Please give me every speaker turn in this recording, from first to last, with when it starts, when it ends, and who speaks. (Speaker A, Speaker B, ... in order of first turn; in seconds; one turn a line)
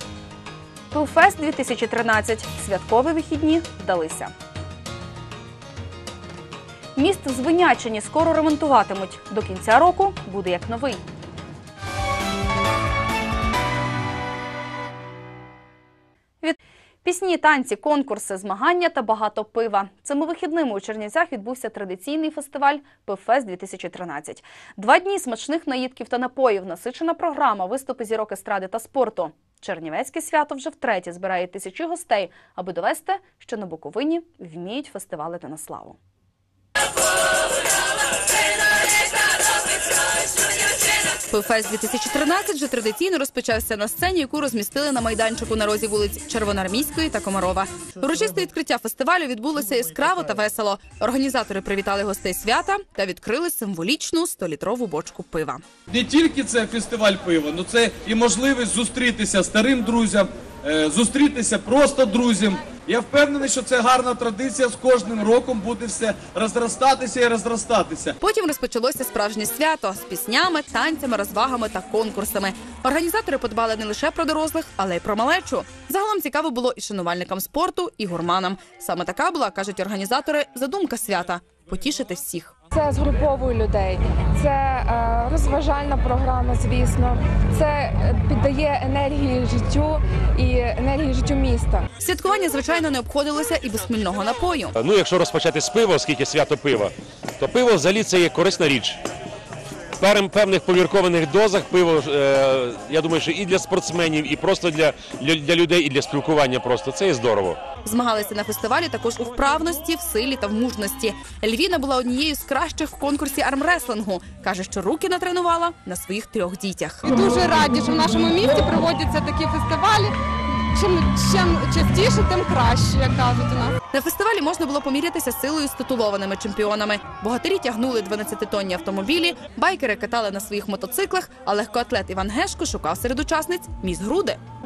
Speaker A: 0.9-4.3
Speaker A: 7.0-11.0
Speaker A: 16.4-36.0
Speaker A: 41.3-55.6
Speaker B: 55.9-68.2
Speaker A: 68.2-82.6
Speaker C: 82.7-91.9
Speaker A: 92.0-94.8
Speaker D: 94.8-99.0
Speaker D: 100.0-107.6
Speaker A: 107.8-117.1
Speaker E: 117.1-120.1
Speaker E: 120.7-123.7
Speaker A: 123.9-134.4